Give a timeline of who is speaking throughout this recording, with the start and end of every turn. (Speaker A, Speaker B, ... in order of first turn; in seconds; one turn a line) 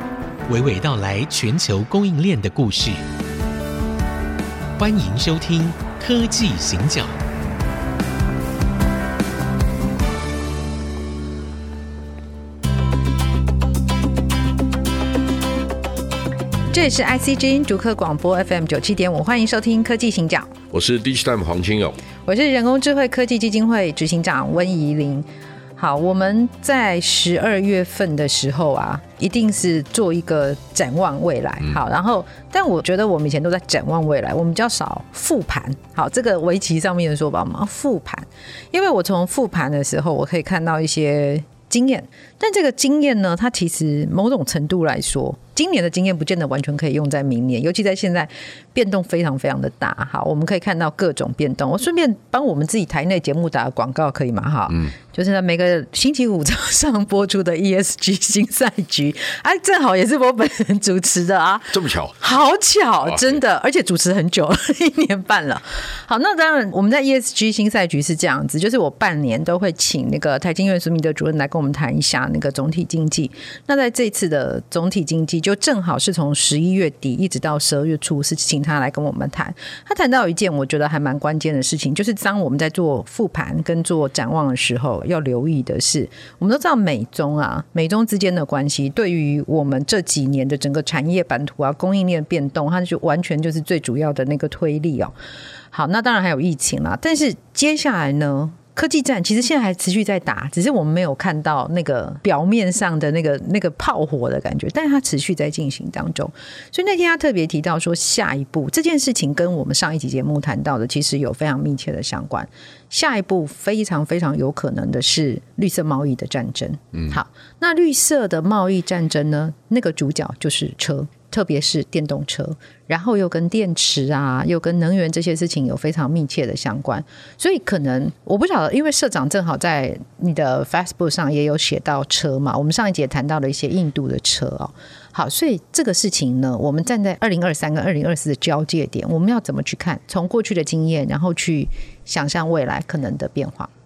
Speaker A: 0.5-3.0
Speaker A: 4.8-7.2
Speaker B: 16.7-20.5
Speaker C: 20.7-22.0
Speaker B: 22.2-25.2
Speaker B: 25.8-95.1
Speaker C: 54.7-54.9
Speaker C: 61.7-62.2
Speaker C: 63.0-63.4
Speaker B: 95.7-143.7